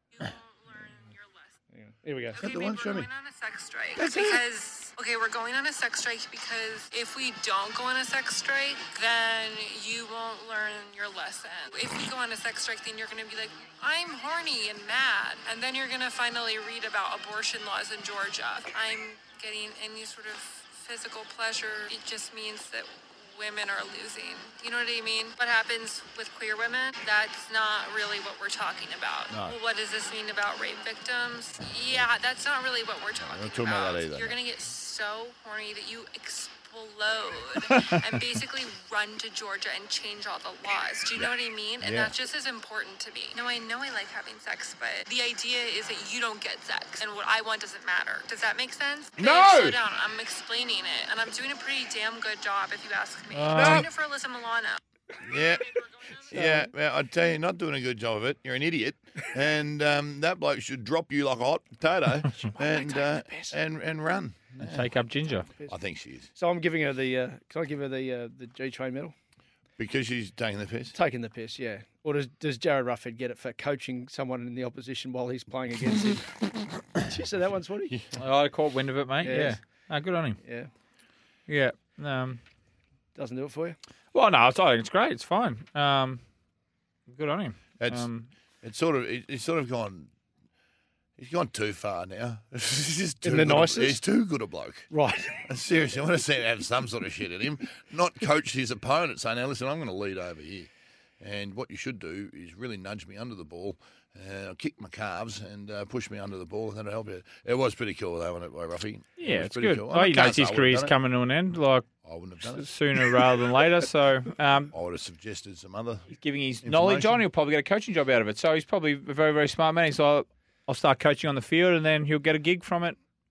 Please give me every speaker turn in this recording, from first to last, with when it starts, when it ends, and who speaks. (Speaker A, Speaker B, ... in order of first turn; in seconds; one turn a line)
Speaker A: 0.1-1.5
Speaker B: 1.8-2.4
Speaker A: 2.4-54.8
Speaker C: 2.4-3.1
Speaker C: 4.0-4.4
Speaker C: 29.3-29.6
Speaker C: 33.2-34.4
Speaker D: 37.7-38.0
Speaker C: 41.2-42.1
Speaker C: 49.2-49.8
Speaker D: 53.3-53.9
Speaker C: 53.5-53.9
Speaker C: 55.2-55.6
Speaker A: 55.8-56.3
Speaker C: 56.3-64.9
Speaker B: 56.3-56.7
Speaker B: 62.3-63.5
Speaker D: 64.6-65.5
Speaker C: 65.7-66.3
Speaker B: 66.4-69.1
Speaker C: 69.8-71.0
Speaker B: 71.0-76.4
Speaker B: 77.0-78.0
Speaker D: 78.2-80.4
Speaker B: 79.2-79.6
Speaker B: 80.4-80.7
Speaker D: 81.5-82.4
Speaker B: 83.2-83.8
Speaker D: 84.1-86.2
Speaker D: 87.1-88.3
Speaker C: 87.8-88.1
Speaker C: 88.6-90.1
Speaker C: 91.2-94.9
Speaker B: 93.2-94.0
Speaker B: 94.9-95.4
Speaker C: 95.4-111.0
Speaker D: 109.2-111.9
Speaker C: 112.0-112.7
Speaker D: 112.5-114.7
Speaker C: 114.7-116.1
Speaker D: 116.1-123.0
Speaker C: 116.6-117.2